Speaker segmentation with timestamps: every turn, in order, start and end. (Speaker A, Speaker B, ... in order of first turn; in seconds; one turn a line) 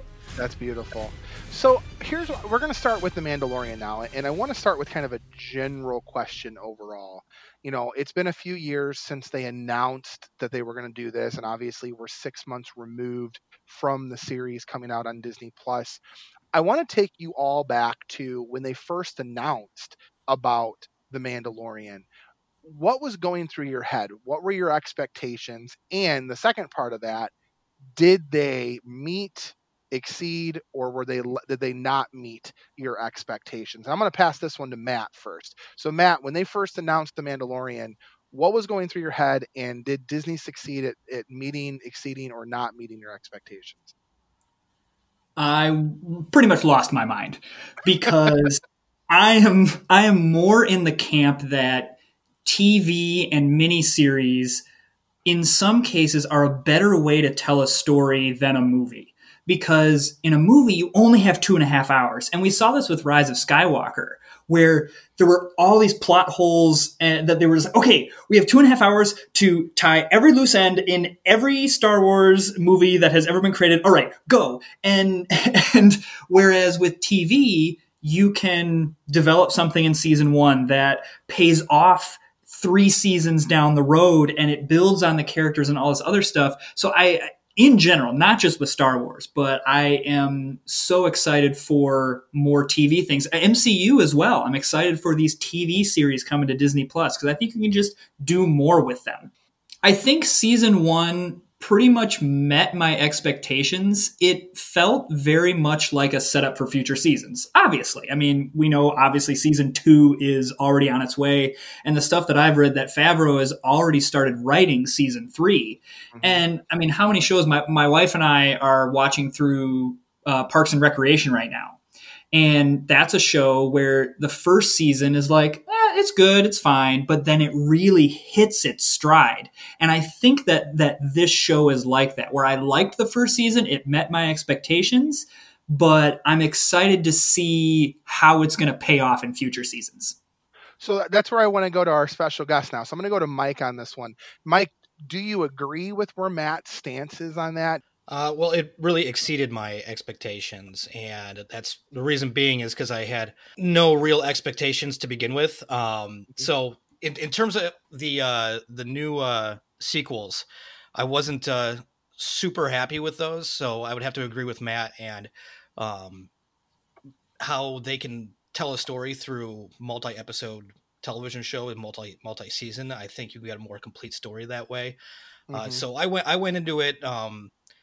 Speaker A: 0.4-16.0
Speaker A: 16.5-22.1
Speaker A: 22.6-27.3
Speaker A: 28.0-43.9
Speaker B: 45.4-54.6
Speaker B: 55.2-99.3
Speaker B: 99.8-121.8
Speaker A: 116.1-116.4
Speaker B: 122.3-140.2
Speaker A: 140.8-147.8
Speaker C: 148.1-166.3
Speaker C: 167.4-175.0
Speaker A: 175.5-175.8
Speaker C: 175.5-177.5